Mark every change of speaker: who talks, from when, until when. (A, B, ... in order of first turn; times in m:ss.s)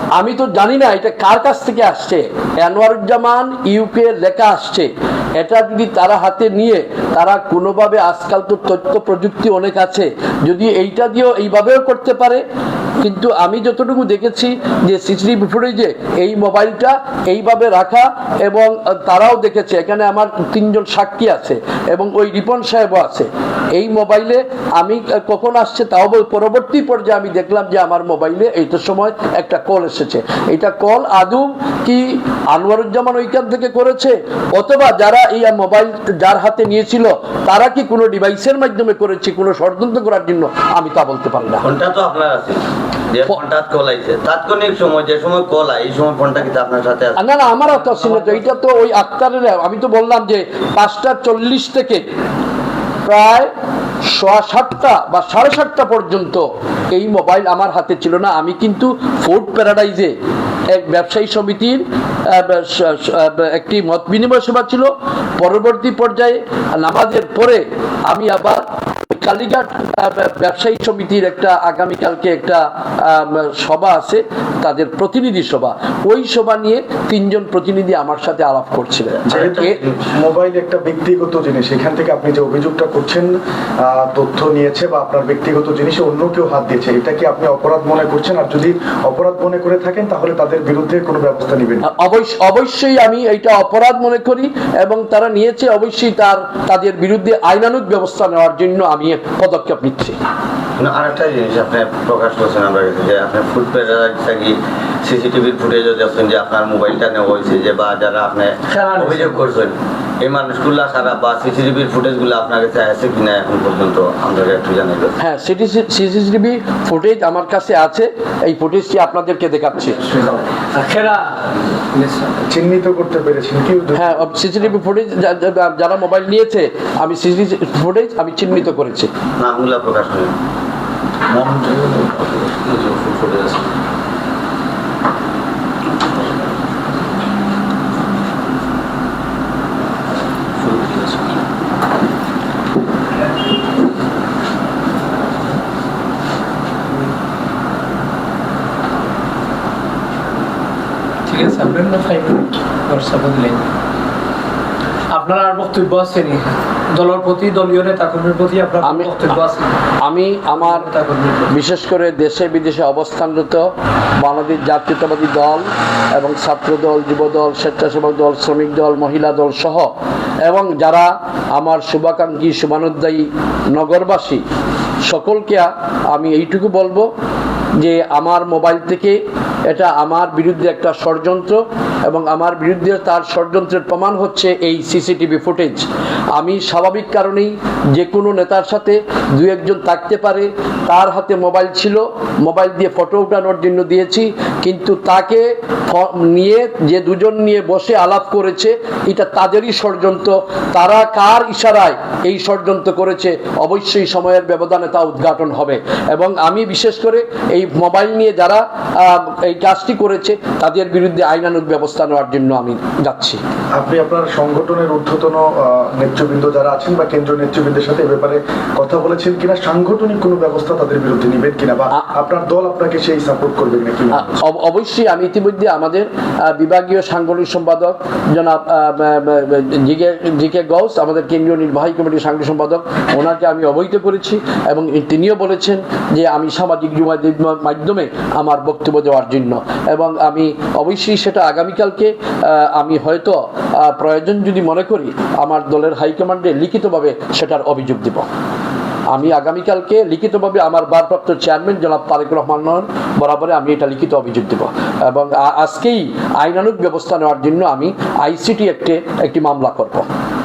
0:00.2-0:12.4 A
0:13.0-0:41.7 A
0:41.6-0:42.6 B
0:43.1-0:47.2 B
0:47.2-0:52.0 A
0:53.0-0:53.5 A
0:54.0-1:00.1 A
1:00.7-1:19.7 A
1:19.2-1:20.0 B
1:19.2-1:31.8 C
1:31.8-1:40.2 A
1:40.8-1:55.1 B
1:48.7-1:49.5 D
1:55.2-2:00.1 A
2:00.1-2:02.4 D
2:02.5-2:04.2 C
2:03.9-2:09.1 A
2:09.4-2:10.3 B
2:11.3-2:13.6 B
2:20.6-2:21.1 B
2:31.3-2:33.7 D
2:35.1-2:39.6 D
2:38.8-2:39.2 A
2:40.0-2:40.9 A
2:40.6-2:41.5 D
2:41.4-2:49.9 A
2:50.4-2:54.4 A
2:55.0-2:57.1 A
2:57.8-3:33.4 A
3:33.8-3:44.4 C
3:44.1-4:08.3 A
4:09.1-4:20.0 A